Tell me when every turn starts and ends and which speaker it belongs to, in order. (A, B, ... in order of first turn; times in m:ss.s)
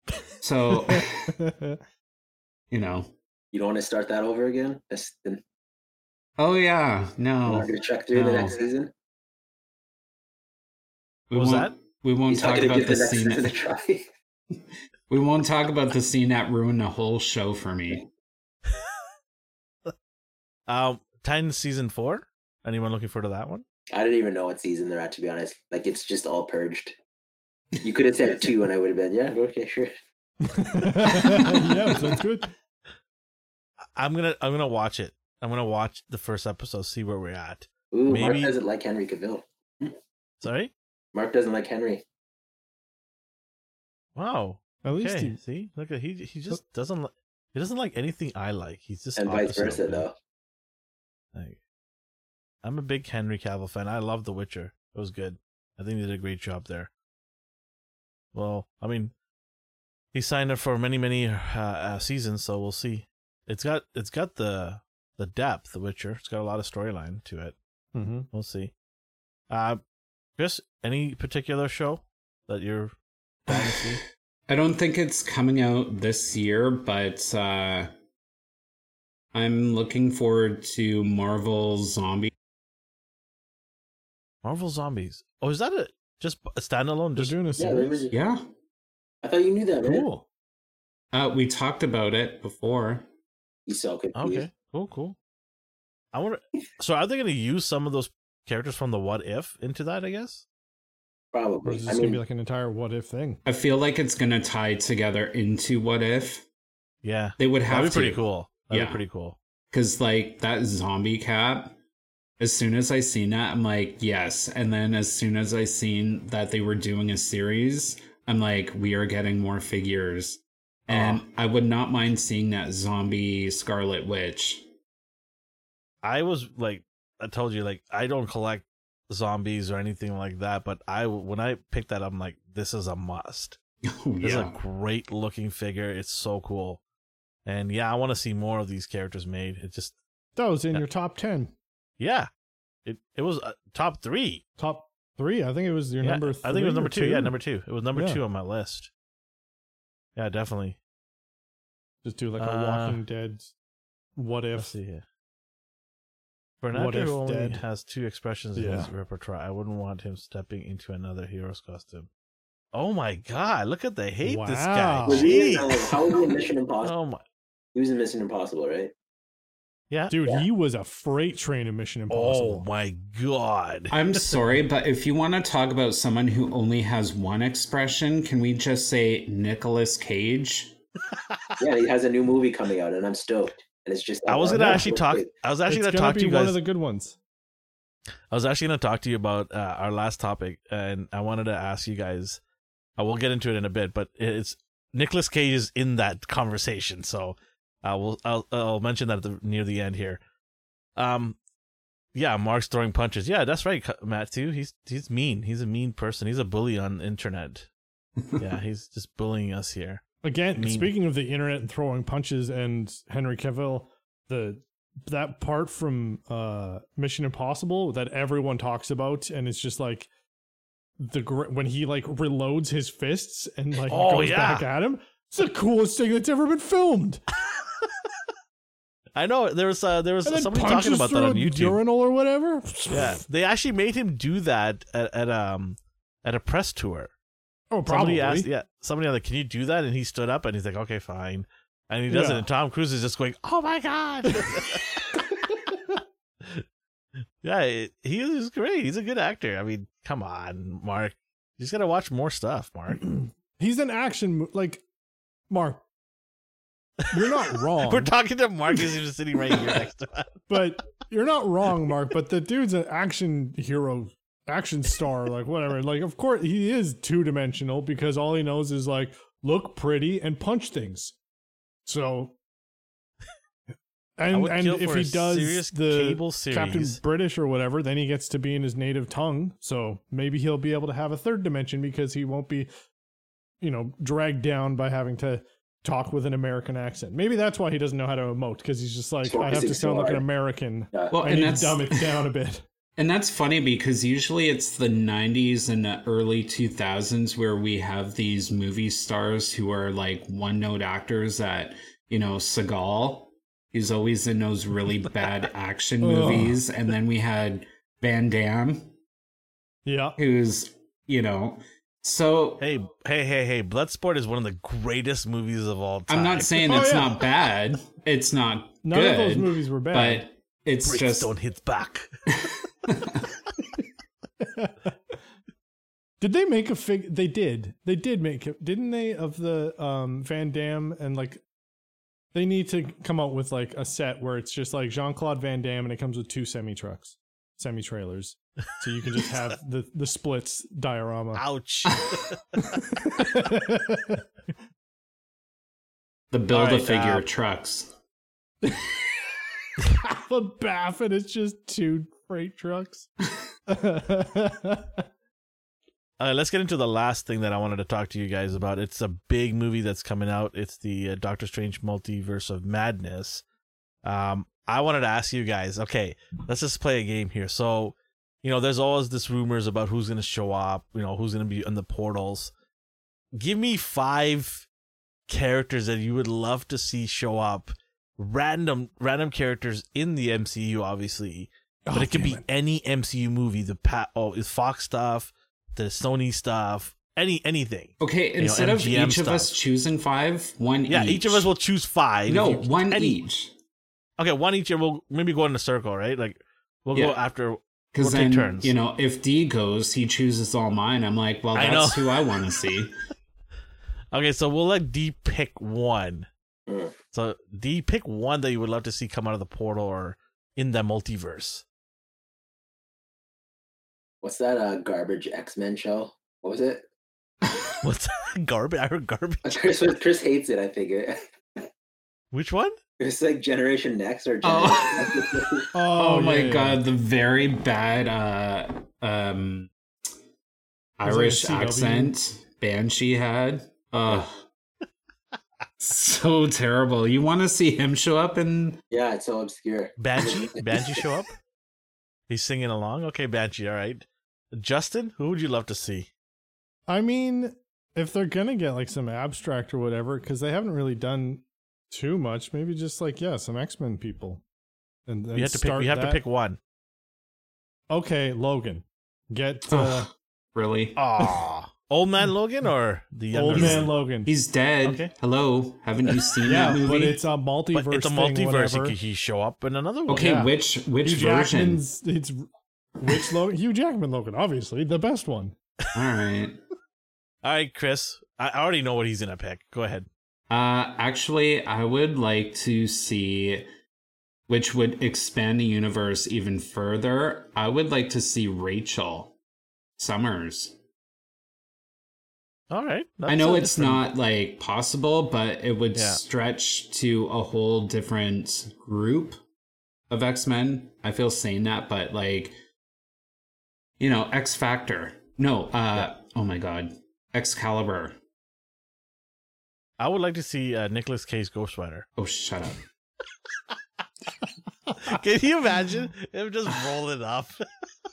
0:00.4-0:01.3 A
0:00.7-0:01.8 B
0:02.7-0:03.1 A
0:03.5-0:05.4 C
0:06.4-0:08.6 A
0:07.4-0:08.9 C
0:11.3-0:13.5 A
0:11.3-0:11.7 D
0:12.3-0:14.0 C
0:14.5-0:18.0 A
0:20.7-0:23.6 D
0:23.9-0:26.9 C
0:27.8-0:29.9 C
0:30.4-0:32.5 B
0:34.0-0:38.5 D
0:37.9-0:40.0 C
0:40.4-0:40.7 D
0:41.1-0:42.0 C
0:44.2-0:50.0 D
0:44.8-0:45.4 B
0:49.2-0:50.1 C
0:52.6-0:56.9 D
0:58.3-0:59.1 D
1:00.1-1:07.5 D
1:07.9-1:08.3 B
1:08.3-1:08.7 D
1:09.5-1:09.8 D
1:10.4-1:12.9 D
1:13.4-1:14.0 D
1:13.5-1:14.0 A
1:14.5-1:17.9 A
1:19.3-1:22.3 A
1:24.4-1:27.4 D
1:27.2-1:28.1 B
1:27.6-1:28.1 C
1:28.1-1:28.4 A
1:29.2-1:30.0 C
1:29.8-1:30.2 B
1:31.1-1:33.1 A
1:33.7-1:34.4 C
1:34.2-1:35.2 D
1:36.1-1:40.4 D
1:41.3-1:42.2 C
1:41.6-1:43.4 B
1:43.4-1:46.4 A
1:47.0-1:49.4 D
1:47.4-1:49.0 A
1:49.7-1:51.8 A
1:52.4-2:04.7 A
2:00.9-2:01.2 D
2:06.0-2:13.6 D
2:13.8-2:14.6 A
2:14.2-2:16.8 D
2:17.4-2:20.0 D
2:20.4-2:21.5 B
2:22.0-2:22.3 D
2:22.8-2:24.4 D
2:24.6-2:27.3 B
2:26.0-2:28.9 D
2:27.9-2:28.2 B
2:30.2-2:30.8 D
2:32.0-2:33.5 B
2:32.4-2:33.0 D
2:34.2-2:34.7 B
2:34.6-2:35.0 D
2:36.6-2:42.1 D
2:36.7-2:37.6 B
2:38.6-2:38.9 B
2:42.7-2:46.2 D
2:44.2-2:45.4 B
2:45.1-2:46.9 C
2:46.8-2:47.2 D
2:47.7-2:48.9 C
2:50.1-2:52.6 B
2:52.1-2:54.3 D
2:53.9-3:00.8 A
3:01.3-3:01.6 D
3:01.6-3:05.3 C
3:04.3-3:06.6 D
3:05.7-3:07.2 B
3:08.3-3:12.4 D
3:13.0-3:20.2 D
3:21.0-3:21.4 D
3:22.1-3:27.7 D
3:28.4-3:30.0 D
3:30.2-3:40.1 B
3:30.6-3:30.9 D
3:41.0-3:47.2 B
3:43.9-3:44.7 D
3:47.5-3:47.9 D
3:49.2-3:51.8 D
3:50.2-3:53.2 B
3:52.9-3:57.1 D
3:57.7-3:58.5 B
3:57.8-4:05.1 D
4:02.1-4:02.4 B
4:07.4-4:13.0 D
4:13.0-4:14.8 B
4:15.5-4:15.8 B
4:17.1-4:20.5 D
4:17.1-4:18.1 B
4:20.5-4:31.1 B
4:31.8-4:32.3 B
4:34.2-4:42.7 B
4:34.3-4:37.0 D
4:43.6-4:52.6 B
4:49.2-4:50.2 C
4:51.1-4:52.2 A
4:53.0-5:08.9 A
5:06.0-5:06.6 B
5:09.8-5:10.2 B
5:10.2-5:12.6 A
5:12.6-5:17.0 D
5:16.1-5:21.3 A
5:16.6-5:17.2 B
5:18.8-5:20.2 B
5:20.8-5:22.9 D
5:24.4-5:24.7 B
5:26.2-5:31.4 B
5:32.3-5:41.4 B
5:41.3-5:42.8 D
5:42.6-5:44.2 B
5:46.3-5:47.9 A
5:46.5-5:47.2 D
5:50.0-5:53.1 B
5:53.7-5:55.0 B
5:56.2-6:03.4 D
6:04.0-6:12.5 D
6:13.3-6:14.7 D
6:15.3-6:29.5 D
6:21.8-6:22.4 B
6:28.0-6:31.5 A
6:30.9-6:33.2 D
6:32.3-6:33.5 A
6:34.2-6:38.7 D
6:36.9-6:37.2 A
6:37.9-6:42.9 A
6:41.5-6:42.4 D
6:44.1-6:46.3 D
6:46.7-6:46.9 C
6:47.1-6:51.6 D
6:54.2-6:56.8 C
6:57.4-6:57.7 A
6:57.8-6:59.9 D
6:59.5-7:01.6 C
7:02.3-7:02.8 D
7:03.0-7:05.7 C
7:04.4-7:05.2 A
7:05.7-7:06.8 B
7:05.9-7:09.7 A
7:11.0-7:14.4 A
7:11.0-7:12.1 B
7:15.8-7:18.8 A
7:18.9-7:21.1 C
7:20.0-7:21.3 D
7:22.3-7:26.1 D
7:26.9-7:34.4 B
7:35.1-7:36.2 B
7:35.3-7:36.6 D
7:37.9-7:40.1 B
7:39.7-7:41.0 A
7:41.0-7:43.9 D
7:43.3-7:44.3 B
7:43.5-7:47.2 A
7:44.8-7:45.1 D
7:46.4-7:49.0 B
7:47.7-7:50.5 D
7:50.1-7:51.8 A
7:51.0-7:52.4 B
7:53.0-7:55.6 B
7:55.9-7:56.6 A
7:57.4-8:00.1 D
8:00.5-8:03.7 A
8:04.5-8:09.3 A
8:10.0-8:10.8 A
8:12.7-8:14.0 D
8:13.3-8:19.4 A
8:15.9-8:16.2 D
8:20.1-8:22.6 A
8:24.0-8:28.2 A
8:30.0-8:32.1 D
8:32.2-8:32.8 A
8:35.0-8:37.6 D